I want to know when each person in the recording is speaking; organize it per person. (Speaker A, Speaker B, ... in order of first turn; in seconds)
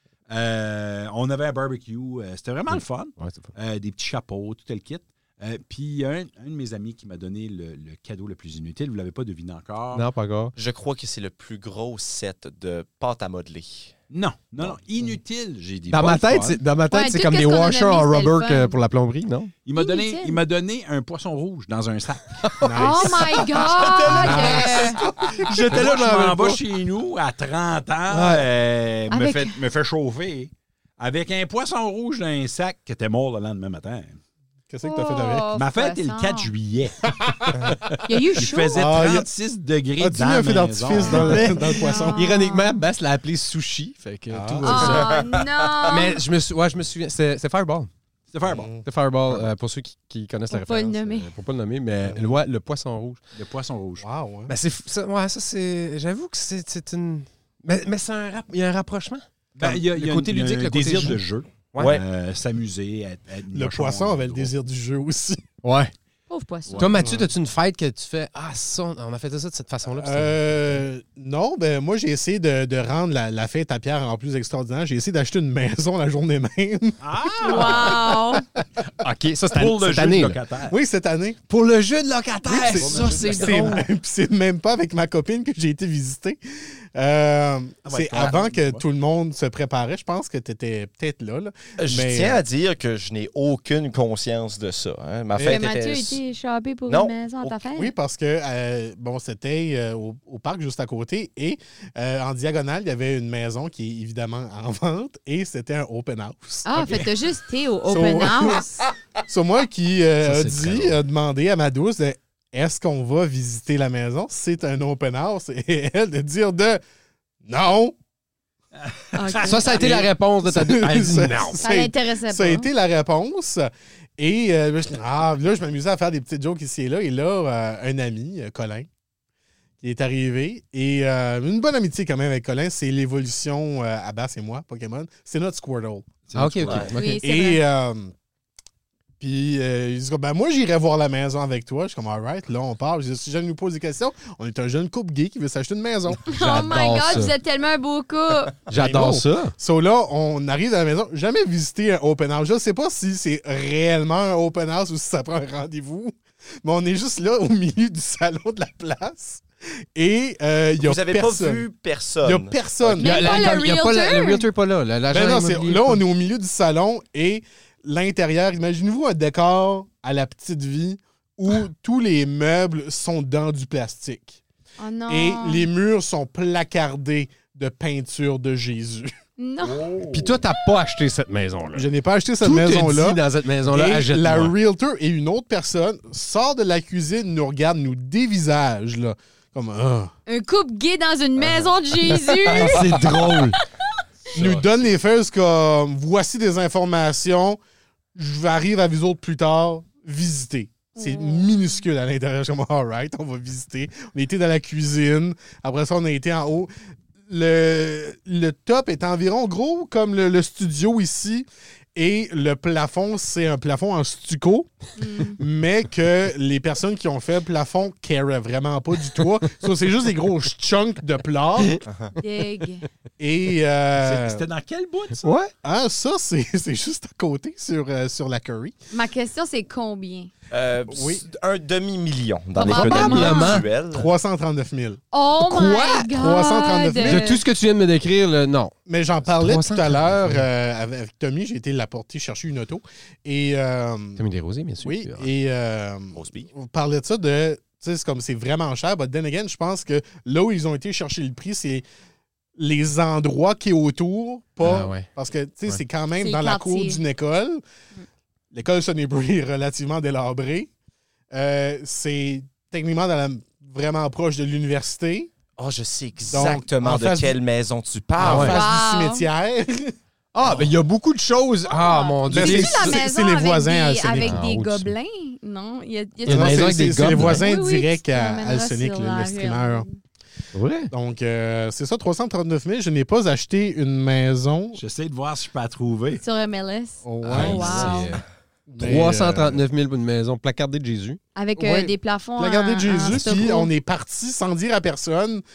Speaker A: 0.3-10.1, 14.1-16.6, 19.6-22.5, 23.9-34.2, 35.5-37.1, 38.4-41.5, 48.3-48.7, 53.4-54.0, 59.5-64.5, 66.7-66.9, 77.0-78.2, 79.5-80.8, 82.7-83.8, 87.8-88.8, 118.9-119.9, 136.2-136.9, 179.6-180.4, 194.3-194.6, 223.9-225.2, 284.8-286.2, 287.3-287.7
Speaker B: 2.7-3.5, 9.9-10.5, 15.9-19.5, 22.4-26.6, 28.1-28.5, 40.9-45.1, 45.9-47.9, 48.8-53.2, 54.5-61.2, 65.6-65.9, 66.8-70.3, 79.0-80.4, 81.5-83.8, 110.2-111.0, 119.4-121.6, 136.3-137.2, 146.1-147.3, 148.7-149.5, 163.0-166.0, 180.1-181.9, 182.4-184.5, 192.4-193.6, 225.2-225.5, 232.6-233.7, 237.0-238.7, 239.2-240.4, 244.2-245.3, 254.6-255.1, 268.2-268.6, 270.3-273.0, 274.2-274.5, 276.3-277.4, 280.5-280.9, 287.3-288.2, 288.8-291.2
Speaker C: 10.6-13.9, 44.8-46.0, 61.8-62.0, 91.8-96.2, 96.9-97.6, 136.6-136.9, 160.8-163.0, 221.8-222.1, 230.5-234.1, 246.1-246.5, 265.6-268.6
Speaker D: 16.9-18.7, 19.8-20.4, 22.7-25.0, 29.1-29.6, 34.8-36.5, 38.0-38.9, 41.4-42.8, 44.6-46.2, 50.5-51.3, 66.3-66.9, 77.4-78.4, 95.5-97.9, 106.6-108.8, 119.1-119.8, 121.6-122.7, 136.9-137.6, 146.3-148.5, 163.0-164.4, 174.8-175.7, 179.4-179.8, 190.3-193.6, 200.9-201.8, 215.0-215.4, 222.2-222.9, 228.9-230.3, 232.6-233.6, 235.1-237.4, 256.2-257.0, 268.3-269.3, 271.7-280.0, 286.2-288.2, 291.4-293.7
Speaker E: 22.6-25.3, 34.7-35.5, 37.0-38.0, 38.7-39.3, 40.0-42.2, 44.3-45.0, 48.5-48.9, 52.0-52.4, 54.0-54.5, 63.5-65.4, 66.9-67.3, 69.9-78.4, 80.7-81.4, 82.5-86.4, 86.9-92.4, 95.3-95.6, 97.7-107.2, 107.9-108.7, 109.3-116.8, 117.4-117.9, 119.6-128.9, 129.8-136.2, 137.2-138.1, 139.2-146.7, 148.7-159.4, 159.9-161.6, 162.2-163.4, 165.1-174.4, 175.1-179.1, 181.7-190.1, 194.3-197.6, 198.1-206.7, 207.3-214.7, 215.3-221.8, 223.2-224.4, 225.6-228.7, 230.9-231.2, 233.3-237.3, 238.8-244.2, 244.8-251.8, 252.6-257.6, 258.5-260.7, 261.3-265.3, 266.3-267.4, 268.2-269.9, 272.3-274.9, 276.2-279.9, 280.9-284.8, 287.0-288.0, 288.7-289.6, 291.6-295.4